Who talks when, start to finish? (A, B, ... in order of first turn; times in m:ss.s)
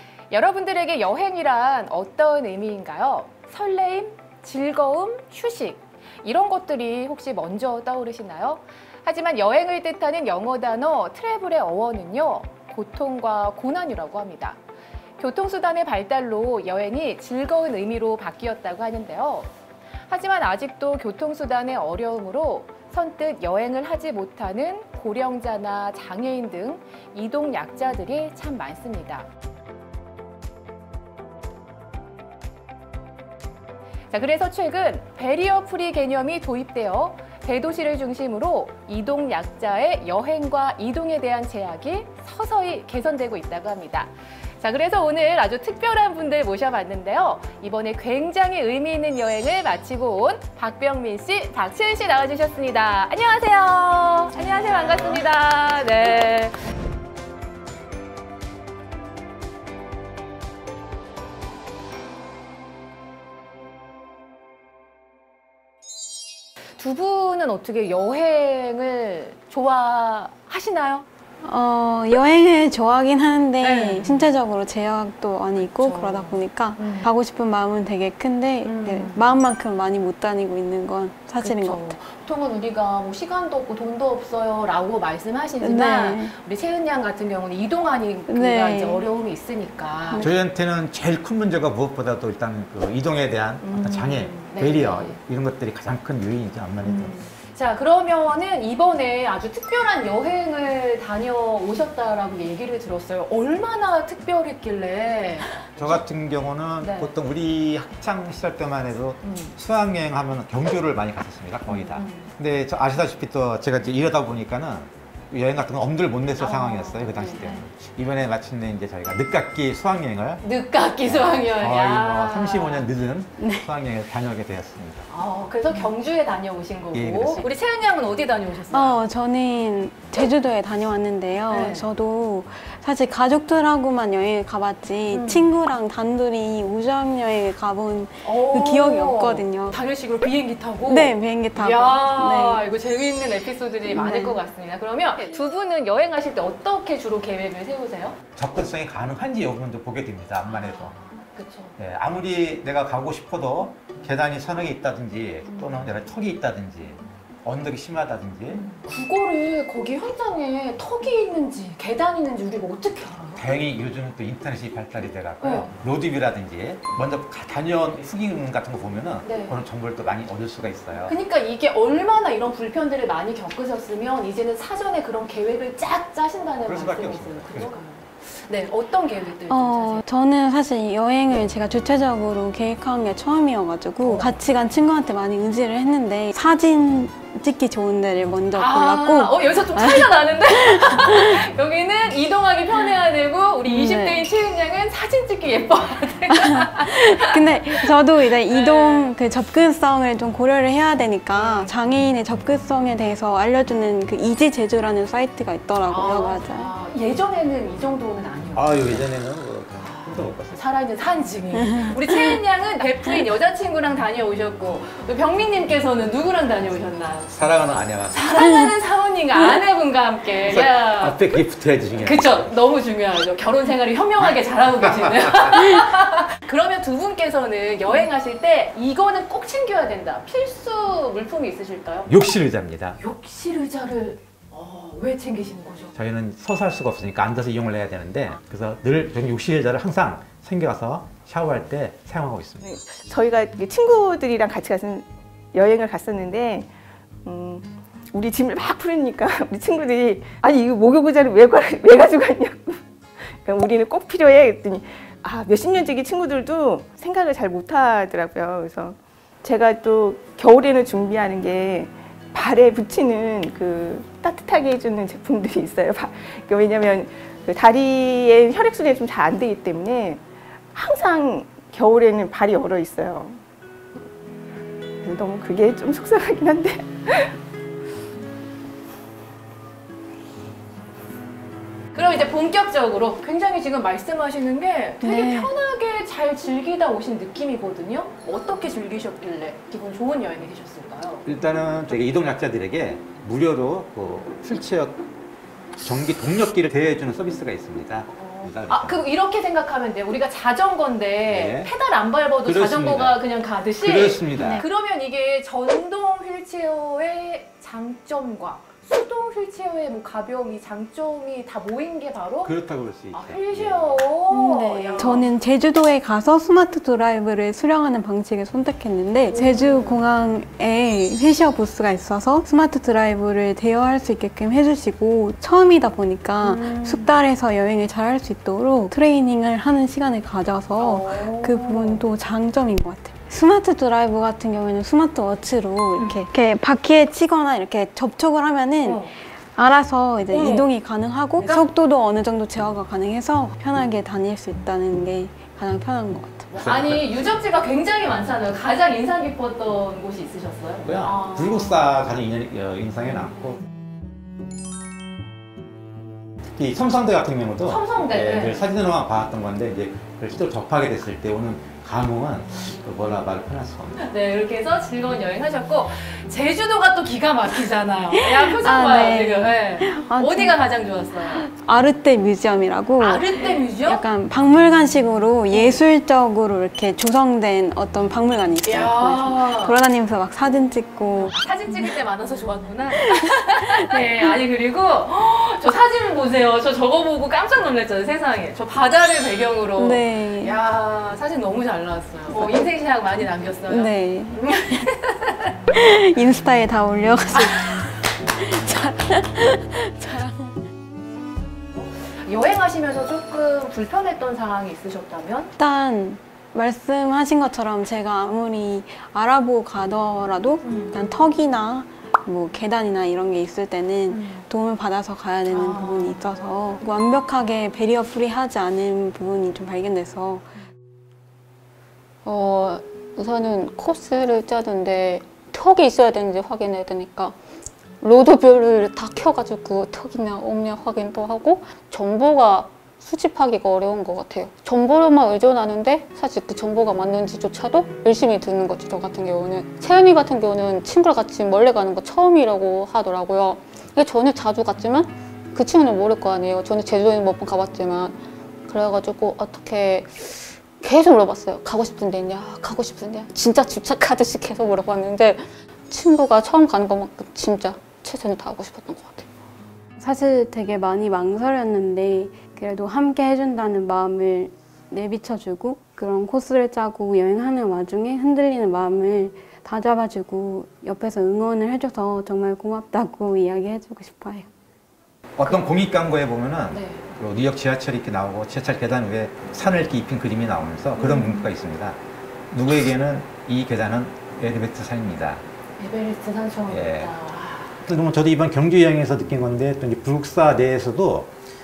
0:00.3-0:14.6 A
0:15.2-0:19.5 A
0:20.1-0:29.3 A
0:34.1-0:56.5 A
1:06.8-1:11.0 A
1:11.4-1:22.0 B
1:13.6-1:14.3 A
1:15.7-1:17.1 A
1:18.6-1:19.2 A
1:21.4-1:30.2 A
1:25.6-1:26.3 B
1:28.3-1:29.0 B
1:30.2-1:37.1 C
1:33.6-1:35.2 A
1:36.8-1:45.9 A
1:45.8-2:00.4 C
1:46.8-1:47.1 A
1:49.2-1:49.5 A
1:51.7-1:52.3 A
1:56.4-1:57.6 A
2:00.4-2:02.9 A
2:01.0-2:05.1 C
2:03.4-2:03.7 B
2:05.1-2:09.0 A
2:06.9-2:07.5 C
2:08.7-2:19.8 B
2:11.5-2:11.8 A
2:15.1-2:15.5 A
2:18.2-2:28.2 A
2:20.8-2:22.6 B
2:23.9-2:24.4 B
2:28.4-2:30.9 C
2:30.4-2:31.7 A
2:31.8-2:38.6 C
2:35.5-2:35.8 A
2:38.5-2:43.4 A
2:43.4-2:51.2 C
2:45.4-2:45.7 A
2:49.2-2:49.5 A
2:51.1-3:00.0 A
2:56.6-2:57.8 C
2:59.5-3:11.5 B
3:04.0-3:04.4 A
3:08.6-3:17.9 A
3:13.6-3:14.3 B
3:16.3-3:26.7 B
3:18.5-3:19.1 A
3:21.3-3:21.7 A
3:25.9-3:29.0 A
3:28.5-3:30.6 C
3:29.8-3:37.3 A
3:31.5-3:32.4 B
3:37.3-3:38.2 C
3:38.1-3:41.2 A
3:38.4-3:38.7 B
3:40.5-3:42.4 C
3:42.0-3:52.1 A
3:52.1-3:53.0 C
3:53.0-3:55.9 A
3:55.9-4:02.6 C
4:02.6-4:06.7 D
4:07.2-4:30.2 D
4:30.7-4:33.4 D
4:35.0-4:37.4 D
4:41.9-4:51.2 A
4:45.0-4:45.5 B
4:51.2-4:55.0 C
4:55.8-4:59.0 C
4:58.1-5:12.5 A
5:01.3-5:01.7 C
5:02.4-5:03.2 C
5:03.8-5:04.6 C
5:04.4-5:04.6 B
5:12.4-5:13.9 C
5:13.1-5:15.3 A
5:14.3-5:46.5 B
5:19.3-5:20.0 A
5:26.4-5:27.1 A
5:30.8-5:32.0 A
5:38.8-5:39.1 A
5:40.3-5:40.7 A
5:41.4-5:41.6 A
5:46.5-5:51.9 A
5:46.6-5:47.1 C
5:50.8-5:53.6 C
5:56.6-6:04.0 C
5:57.6-5:58.7 A
6:04.0-6:11.4 A
6:08.1-6:10.7 B
6:11.3-6:21.9 B
6:13.0-6:14.0 A
6:15.5-6:15.8 A
6:18.6-6:19.8 A
6:21.2-6:35.5 A
6:22.9-6:24.0 B
6:29.8-6:30.6 B
6:33.7-6:34.9 B
6:35.7-6:40.6 B
6:41.7-6:45.5 A
6:45.6-7:00.5 B
6:50.6-6:51.0 A
6:54.1-6:54.4 A
6:55.5-6:56.2 A
7:02.2-7:07.4 E
7:08.0-7:39.3 E
7:40.0-7:54.5 B
7:55.4-8:02.0 C
7:55.4-7:55.7 A
7:56.7-7:57.1 A
8:01.0-8:01.5 A
8:02.5-8:05.4 C
8:05.8-8:07.8 A
8:06.7-8:07.1 C
8:07.8-8:11.3 C